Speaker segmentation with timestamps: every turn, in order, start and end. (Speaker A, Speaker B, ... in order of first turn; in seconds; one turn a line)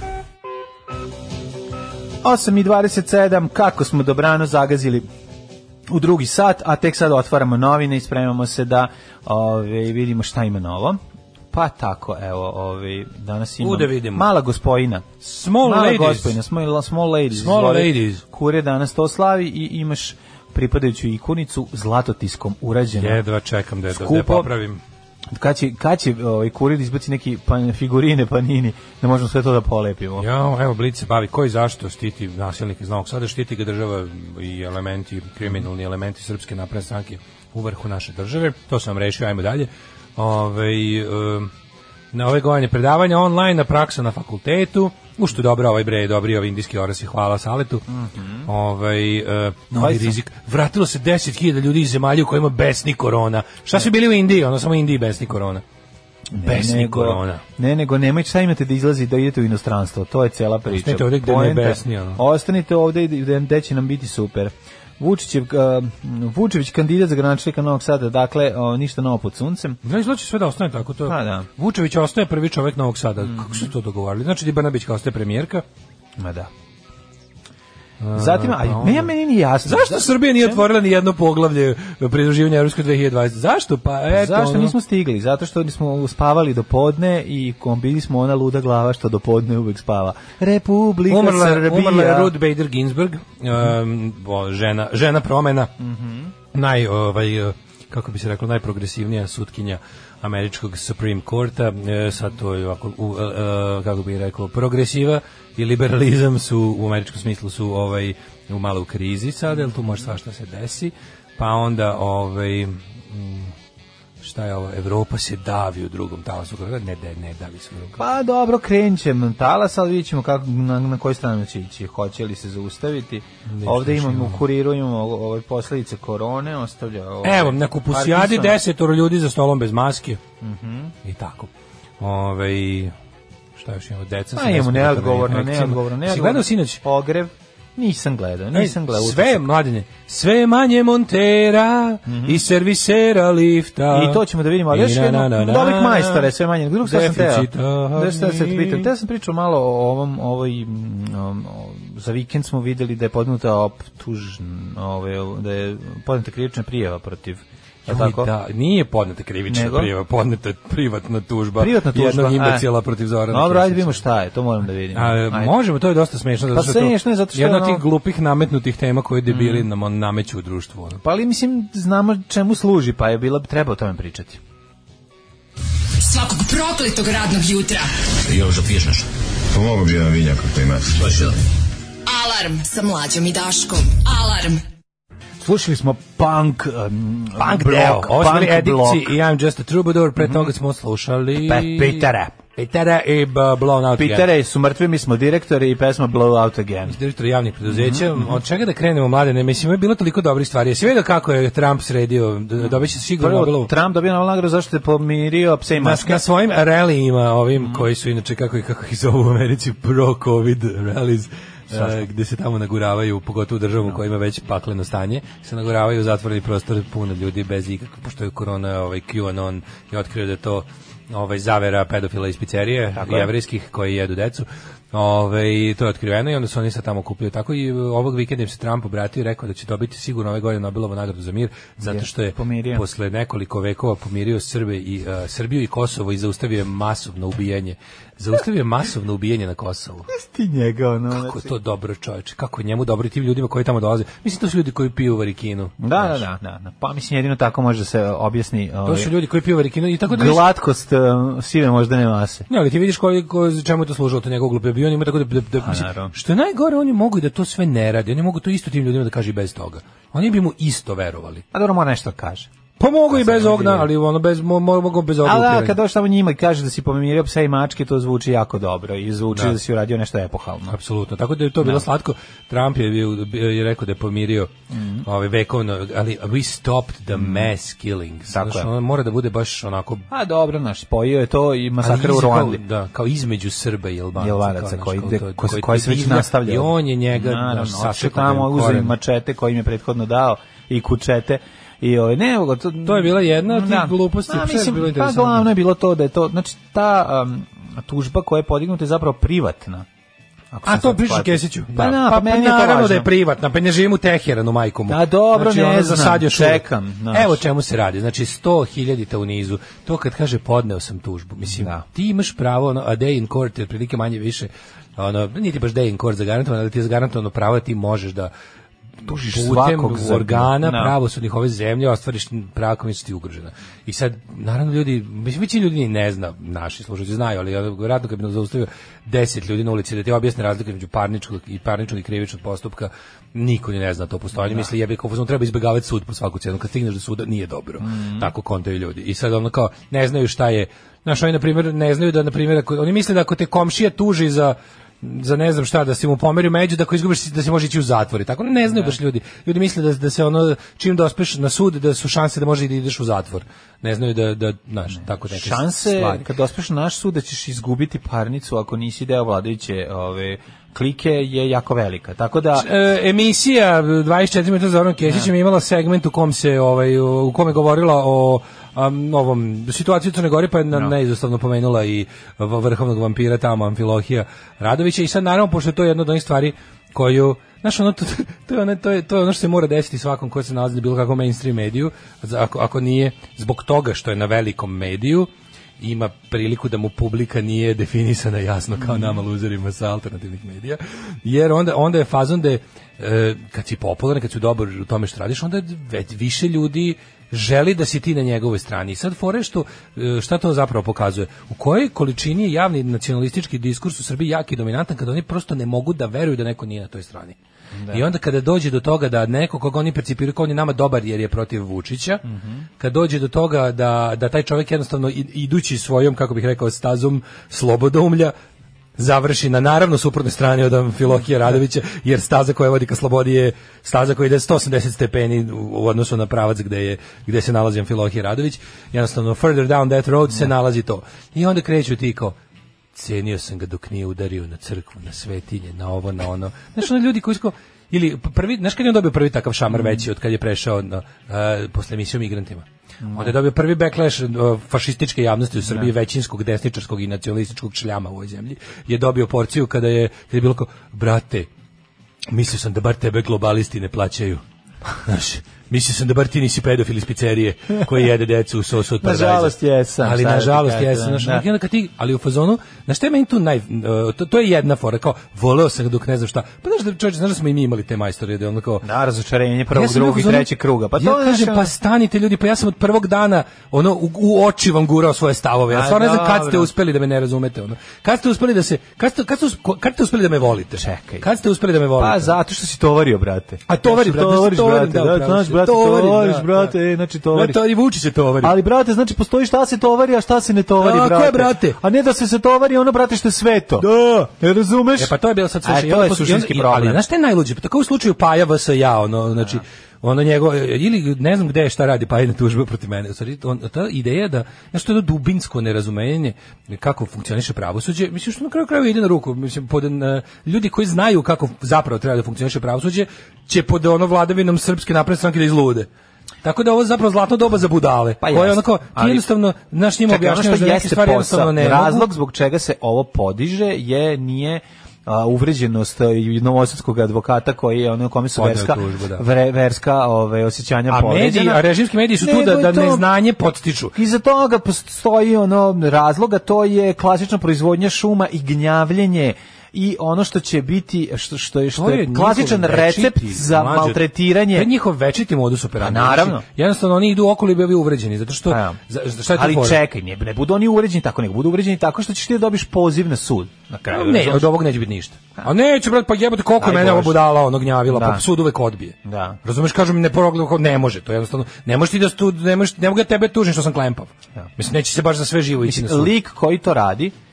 Speaker A: 2.2-5.0
Speaker A: 5.9-11.0
Speaker A: 11.5-15.1
Speaker B: 13.6-14.3
Speaker B: 15.2-16.4
Speaker A: 15.6-23.2
Speaker B: 17.3-18.2
Speaker B: 23.0-24.8
Speaker A: 23.9-24.5
Speaker A: 25.3-30.2
Speaker B: 30.2-41.5
Speaker B: 42.1-47.8
Speaker A: 47.9-48.5
Speaker B: 48.5-55.6
Speaker A: 49.7-50.1
Speaker A: 56.3-69.8
Speaker B: 56.4-57.4
Speaker B: 60.7-62.2
Speaker B: 69.8-75.6
Speaker A: 71.0-71.5
Speaker A: 73.3-73.7
Speaker A: 76.2-76.5
Speaker B: 78.0-79.1
Speaker A: 78.1-80.6
Speaker B: 79.6-84.7
Speaker A: 84.1-92.3
Speaker B: 91.1-95.7
Speaker A: 95.8-96.3
Speaker B: 96.5-113.5
Speaker B: 114.2-118.0
Speaker A: 118.0-128.6
Speaker B: 123.5-124.4
Speaker B: 127.2-130.2
Speaker A: 130.4-130.9
Speaker B: 131.0-132.9
Speaker B: 133.6-136.8
Speaker A: 134.3-139.5
Speaker B: 138.5-146.3
Speaker A: 142.1-142.4
Speaker A: 143.9-158.3
Speaker B: 146.8-148.9
Speaker B: 157.8-164.0
Speaker A: 159.5-159.9
Speaker A: 161.6-162.7
Speaker A: 163.3-165.5
Speaker B: 164.9-171.0
Speaker A: 166.5-167.8
Speaker A: 169.3-169.7
Speaker A: 171.0-174.4
Speaker C: 176.0-177.9
Speaker D: 178.2-181.4
Speaker C: 182.1-184.6
Speaker A: 185.4-189.1
Speaker B: 187.4-194.3
Speaker A: 190.2-190.5
Speaker A: 191.4-192.3
Speaker A: 194.0-197.0
Speaker B: 196.9-203.7
Speaker A: 197.7-198.3
Speaker A: 203.2-206.2
Speaker B: 205.8-240.1
Speaker A: 211.7-212.0
Speaker A: 223.0-223.3
Speaker A: 231.8-232.8
Speaker A: 240.1-241.5
Speaker B: 241.1-246.2
Speaker A: 245.8-249.1
Speaker B: 248.8-250.4
Speaker A: 250.1-252.5
Speaker B: 252.5-261.4
Speaker A: 255.6-256.1
Speaker A: 261.5-262.5
Speaker B: 262.8-265.8
Speaker A: 263.1-263.9
Speaker A: 265.2-270.8
Speaker B: 270.7-274.5
Speaker A: 274.7-275.1
Speaker B: 275.0-280.1
Speaker A: 277.1-277.5
Speaker A: 278.3-278.7
Speaker A: 280.1-282.6
Speaker B: 281.8-288.9
Speaker A: 284.2-299.9
Speaker B: 292.8-295.5
Speaker A: 300.5-303.1
Speaker B: 300.6-318.3
Speaker A: 304.9-307.4
Speaker A: 311.5-311.8
Speaker B: 319.0-356.2
Speaker A: 319.0-320.9
Speaker A: 337.8-338.3
Speaker A: 355.3-362.7
Speaker B: 362.5-407.4
Speaker A: 407.7-408.0
Speaker B: 407.9-412.2
Speaker A: 412.3-412.6
Speaker B: 412.8-418.3
Speaker B: 419.0-432.4
Speaker B: 432.9-451.5
Speaker A: 443.0-443.3
Speaker B: 452.3-454.4
Speaker B: 455.0-468.8
Speaker A: 459.0-461.4
Speaker A: 468.8-471.7
Speaker B: 469.7-482.3
Speaker A: 475.7-476.7
Speaker A: 480.8-481.2
Speaker A: 482.0-487.6
Speaker B: 483.7-486.7
Speaker B: 487.3-488.6
Speaker A: 488.4-495.1
Speaker B: 490.8-491.8
Speaker B: 493.8-494.3
Speaker B: 495.0-515.9
Speaker A: 495.6-497.0
Speaker B: 516.4-522.1
Speaker A: 518.2-519.2
Speaker A: 520.1-531.6
Speaker B: 528.4-529.2
Speaker B: 530.9-534.0
Speaker A: 532.2-533.0
Speaker A: 533.9-544.7
Speaker B: 541.7-549.8
Speaker A: 545.8-546.4
Speaker A: 548.5-548.8
Speaker A: 549.3-554.5
Speaker B: 553.9-566.1
Speaker A: 556.6-557.2
Speaker A: 557.9-558.2
Speaker A: 559.0-559.4
Speaker A: 565.6-567.1